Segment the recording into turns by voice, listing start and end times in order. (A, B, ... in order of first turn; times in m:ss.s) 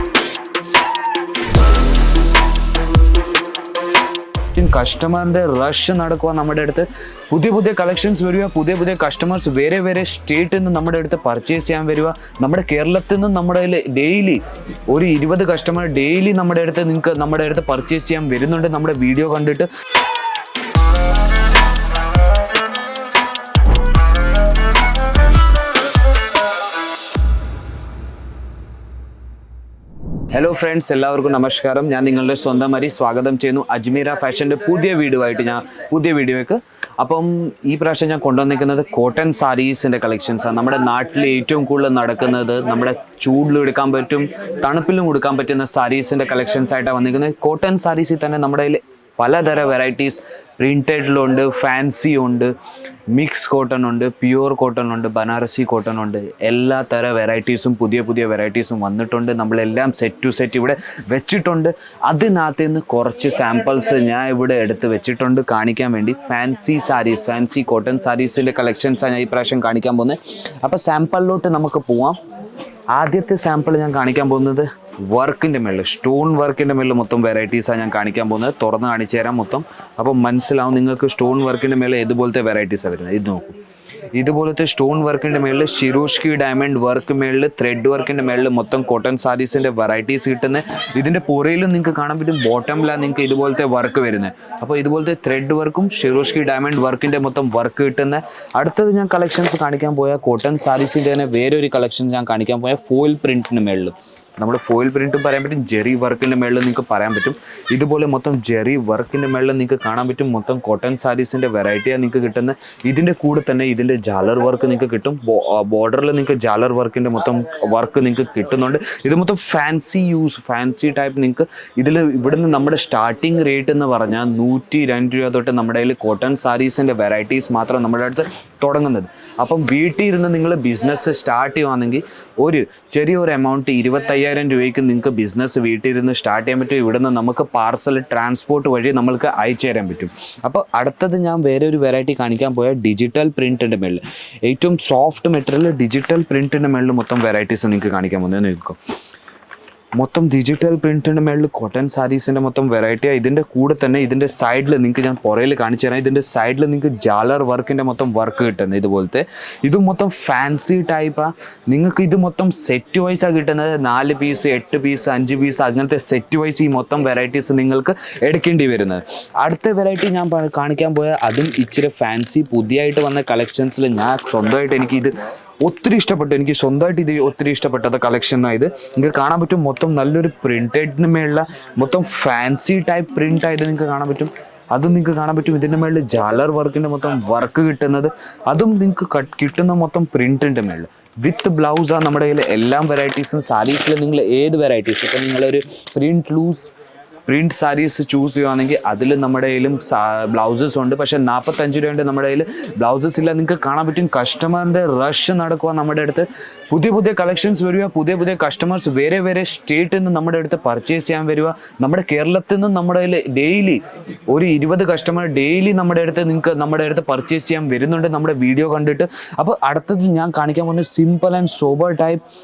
0:04.5-0:19.7 A
0:30.3-0:52.5 A
0:53.1-1:12.2 A
1:12.9-1:23.6 A
1:24.1-2:28.8 A
2:30.0-3:16.7 A
3:17.2-3:42.2 A